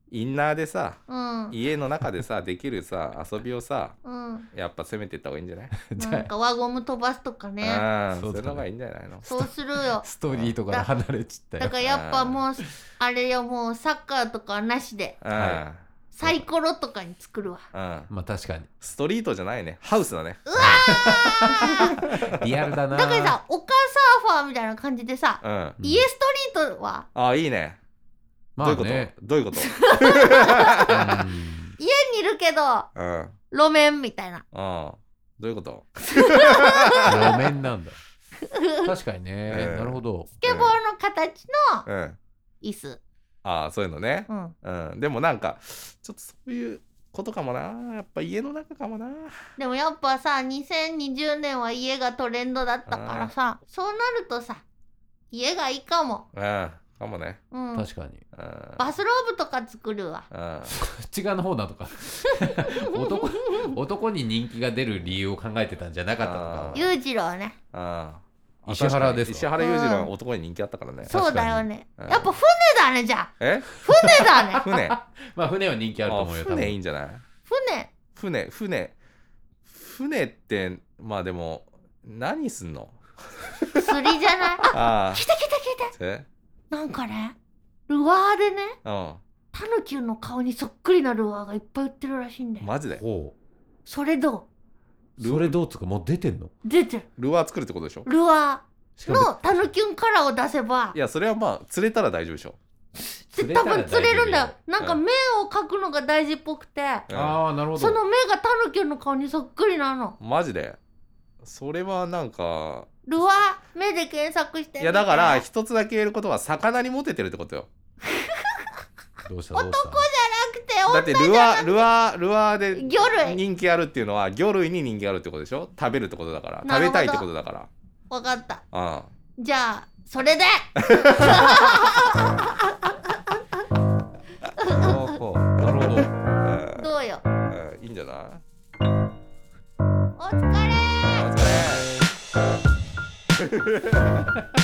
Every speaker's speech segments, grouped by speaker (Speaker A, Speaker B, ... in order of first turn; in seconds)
Speaker A: 0.1-1.0, 1.5-4.0, 4.5-5.8, 7.6-9.3, 10.3-10.6, 11.8-12.4, 15.2-15.8, 17.7-18.1, 18.8-21.0, 21.6-22.4, 25.4-25.8, 27.1-27.8, 28.6-31.1, 33.0-33.3, 34.5-37.4, 39.5-40.8, 41.9-42.2, 43.4-49.4, 52.9-53.3, 56.3-57.4, 58.3-58.9, 60.3-60.7, 66.2-67.0, 67.7-71.2, 72.0-72.3, 73.4-73.7, 74.6-75.0, 76.1-77.2, 78.2-79.0, 79.7-83.0, 83.6-84.0, 84.7-85.3, 85.9-86.3, 88.8-89.2, 92.6-93.0, 95.2-95.6, 97.2-98.1, 100.9-102.6, 107.1-107.4, 110.2-110.8, 111.4-112.9, 114.8-117.7, 120.9-127.7, 128.7-129.1, 130.9-131.7, 136.4-136.9, 137.4-138.4, 141.1-141.9, 143.5-144.0
Speaker B: 1.1-1.6, 4.0-4.5, 6.0-7.8, 9.2-10.1, 11.6-15.2, 16.1-17.7, 20.5-22.0, 22.9-27.1, 29.6-30.9, 31.8-32.9, 33.5-34.4, 36.1-37.4, 38.5-38.9, 40.4-41.9, 42.6-43.0, 44.3-44.5, 49.6-54.6, 55.3-56.3, 57.5-57.9, 58.8-60.3, 62.6-63.7, 66.7-67.6, 69.6-70.1, 71.1-74.6, 77.5-77.9, 83.8-85.9, 86.7-87.3, 87.9-88.8, 89.5-92.7, 93.9-94.5, 96.6-97.1, 98.0-101.0, 103.0-107.1, 107.8-110.2, 113.1-115.4, 118.1-118.6, 119.5-121.9, 122.7-123.4, 126.6-127.3, 128.1-128.6, 129.4-133.6, 134.6-135.1, 136.8-137.2, 140.2-141.3
Speaker C: 5.8-6.3, 8.1-8.7, 9.3-11.8, 15.3-15.6, 18.1-18.7, 20.6-23.4, 25.8-26.1, 28.6-29.1, 30.9-31.8, 37.0-38.0, 38.8-40.3, 57.7-58.2, 60.7-66.8, 68.7-69.5, 71.1-71.7, 74.6-76.8, 92.9-93.3, 95.2-96.5, 99.0-99.7, 103.4-104.5, 107.1-108.0, 119.2-120.0, 134.7-136.1, 141.4-142.1